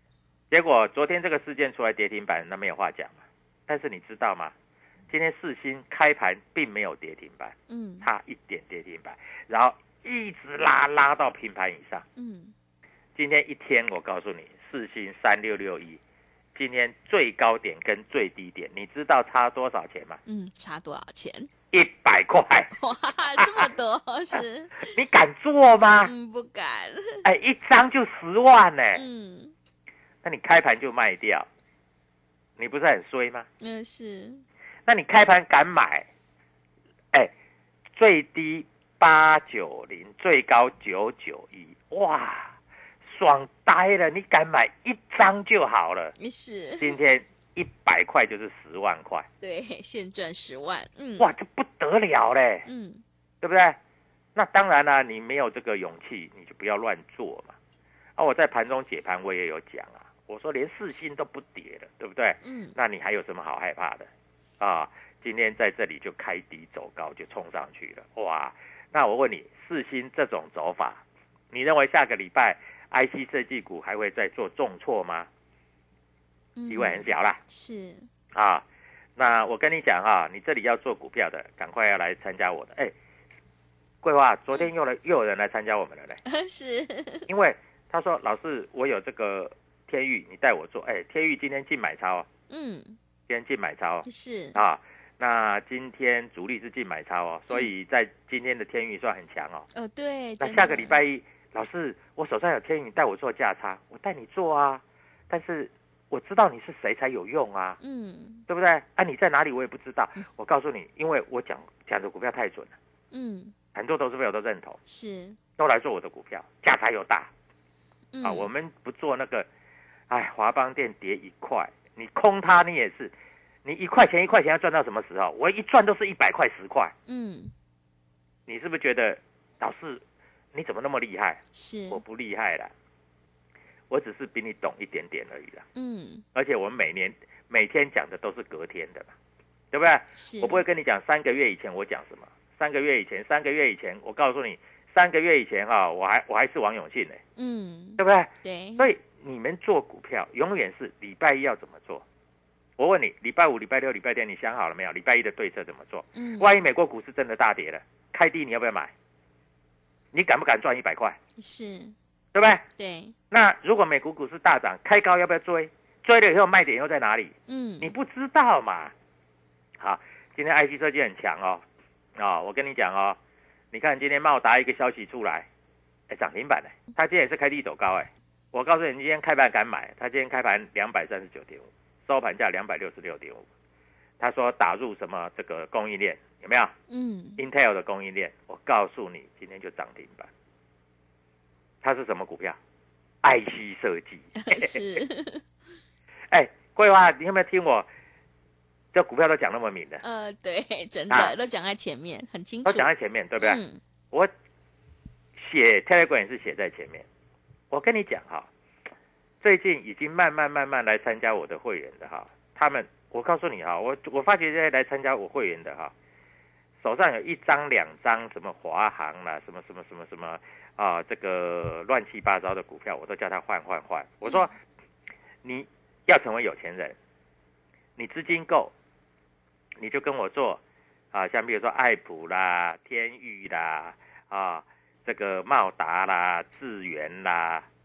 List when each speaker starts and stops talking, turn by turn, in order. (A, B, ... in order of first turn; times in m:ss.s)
0:00.5-0:04.5 A
0:05.1-0:12.1 A
0:07.7-0:08.1 B
0:12.2-0:12.5 B
0:13.2-0:16.0 A
0:16.6-0:20.2 A
0:20.3-0:21.5 B
0:21.7-0:22.7 A
0:22.7-0:24.9 B
0:23.4-0:23.6 A
0:24.8-0:26.1 A
0:26.0-0:27.3 B
0:27.2-0:29.0 A
0:28.9-0:29.5 B
0:30.2-0:31.5 A
0:32.6-0:33.5 A
0:33.6-0:34.4 B
0:34.9-0:36.1 A
0:38.0-0:42.5 A
0:43.1-0:46.1 A
0:46.2-0:47.0 B
0:46.8-0:49.3 A
0:49.4-0:51.3 B
0:51.2-0:52.7 A
0:52.6-0:53.0 B
0:53.4-0:53.8 A
0:54.4-0:57.5 A
0:58.2-1:04.1 A
1:02.4-1:02.8 B
1:04.6-1:15.3 A
1:16.6-1:18.1 B
1:16.7-1:17.4 A
1:18.3-1:18.6 A
1:19.2-1:22.9 A
1:24.0-1:26.2 A
1:26.3-1:27.3 B
1:27.3-1:32.3 A
1:32.5-1:33.0 B
1:33.3-1:39.7 A
1:34.0-1:34.6 B
1:39.8-1:41.0 B
1:40.4-1:47.8 A
1:47.8-1:48.4 B
1:48.5-1:52.7 A
1:53.1-1:53.5 B
1:53.8-1:54.8 A
1:54.9-1:55.4 B
1:55.6-1:57.3 A
1:58.1-1:58.5 B
1:58.2-1:59.5 A
2:00.1-2:03.1 A
2:03.6-2:06.9 A
2:07.1-2:07.5 B
2:08.5-2:10.0 A
2:10.5-2:12.7 A
2:11.5-2:12.0 B
2:13.9-2:15.7 A
2:15.8-2:16.2 B
2:16.4-2:19.1 A
2:19.7-2:27.2 A
2:20.2-2:20.6 B
2:27.4-2:28.9 B
2:28.0-2:32.0 A
2:32.8-2:38.9 A
2:36.2-2:36.5 B
2:40.1-2:41.2 A
2:41.4-2:42.0 B
2:42.3-2:42.6 A
2:42.8-2:43.1 B
2:43.3-2:48.9 A
2:47.5-2:47.9 B
2:49.8-2:51.6 A
2:52.2-2:53.2 A
2:53.7-2:55.5 A
2:56.1-3:03.4 A
3:04.2-3:06.7 A
3:06.9-3:07.4 B
3:07.4-3:10.3 A
3:11.8-3:12.6 A
3:13.2-3:14.8 A
3:14.4-3:15.4 B
3:16.3-3:17.9 A
3:18.9-3:20.0 A
3:20.0-3:23.8 B
3:22.6-3:23.6 A
3:25.4-3:27.1 A
3:27.7-3:28.5 A
3:29.4-3:35.9 A
3:36.8-3:44.5 A
3:45.4-3:47.0 A
3:48.0-3:48.7 A
3:49.8-3:50.6 A
3:51.1-3:57.7 A